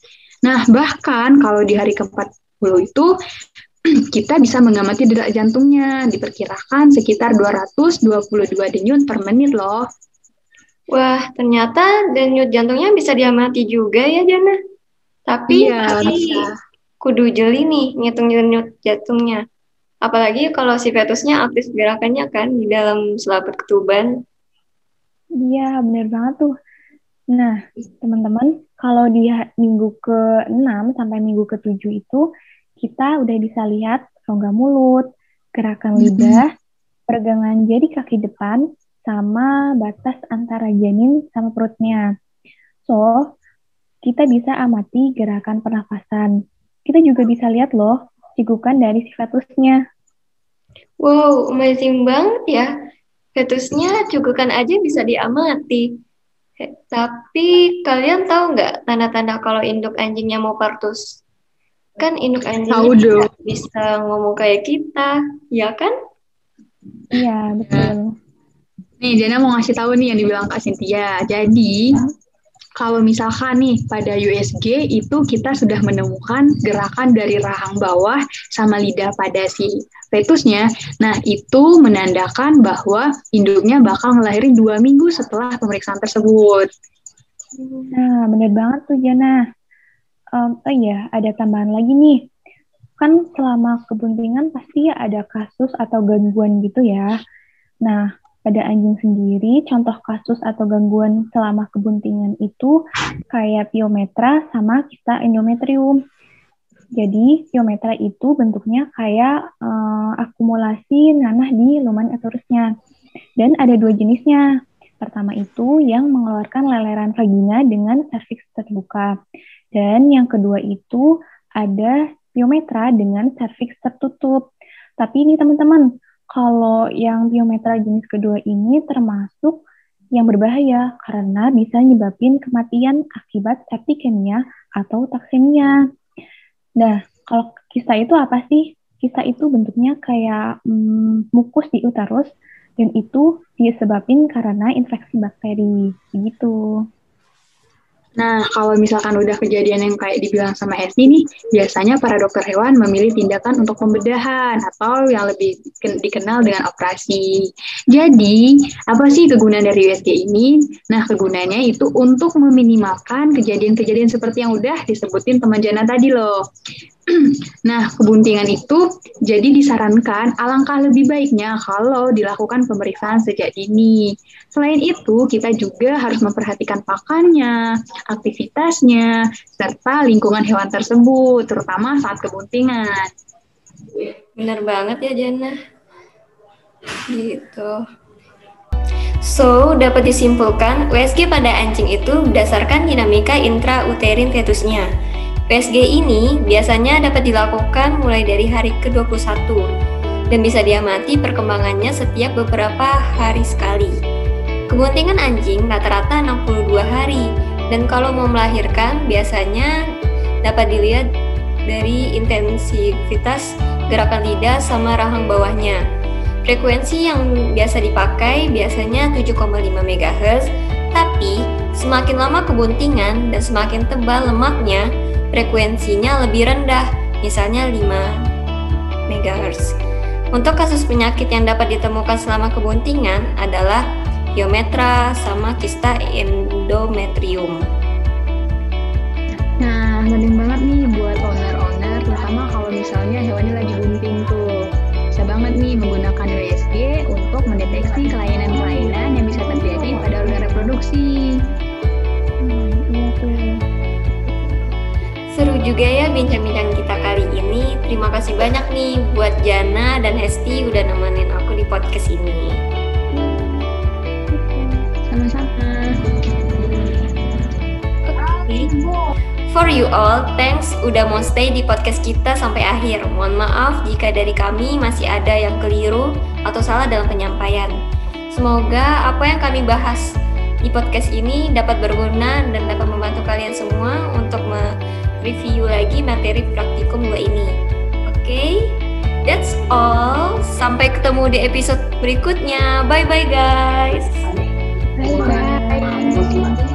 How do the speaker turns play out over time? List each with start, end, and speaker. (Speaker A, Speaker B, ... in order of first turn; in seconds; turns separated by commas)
Speaker A: 0.4-3.1, Speaker A: 4.1-9.8, Speaker B: 10.9-14.6, Speaker B: 15.3-16.5, Speaker A: 15.5-16.5, Speaker B: 17.0-19.4, Speaker B: 20.0-24.1, Speaker C: 25.4-26.5, Speaker C: 27.3-32.2, Speaker C: 32.8-35.0, Speaker C: 35.6-36.5, Speaker A: 36.0-36.4, Speaker C: 37.1-42.0, Speaker C: 42.9-43.2, Speaker C: 44.0-46.3, Speaker C: 46.9-49.8, Speaker B: 51.0-52.7, Speaker B: 53.4-55.9, Speaker B: 56.9-61.2, Speaker B: 62.0-65.9, Speaker A: 62.7-63.3, Speaker C: 67.1-68.1, Speaker A: 69.0-72.0, Speaker A: 72.8-86.7, Speaker B: 87.6-87.9, Speaker C: 87.9-89.4, Speaker C: 90.4-92.2, Speaker C: 93.0-97.1, Speaker C: 97.8-102.7, Speaker C: 103.3-106.0, Speaker C: 107.0-112.7, Speaker C: 113.4-114.4, Speaker C: 115.0-119.1, Speaker C: 119.7-121.0, Speaker C: 121.6-124.4, Speaker C: 125.0-129.6, Speaker C: 130.2-135.8, Speaker C: 136.8-146.6, Speaker A: 148.2-166.3, Speaker A: 167.1-177.5, Speaker A: 178.1-183.1, Speaker B: 184.4-185.5, Speaker B: 187.1-187.8, Speaker B: 189.2-194.9, Speaker B: 195.5-199.7, Speaker B: 200.3-203.9, Speaker B: 204.7-209.7, Speaker B: 210.4-211.0, Speaker B: 211.7-215.8, Speaker B: 216.4-228.1, Speaker B: 229.1-229.8, Speaker B: 230.3-233.8, Speaker B: 234.3-237.6, Speaker A: 239.6-244.5, Speaker A: 245.1-251.1, Speaker C: 252.4-253.5, Speaker B: 255.3-262.6, Speaker C: 263.1-263.7, Speaker C: 264.3-264.9, Speaker A: 265.1-266.9, Speaker B: 268.1-268.8, Speaker A: 268.6-268.9, Speaker B: 269.5-277.7, Speaker B: 278.3-280.0, Speaker B: 280.6-284.7, Speaker B: 285.2-294.1, Speaker C: 295.0-296.5, Speaker A: 295.0-296.5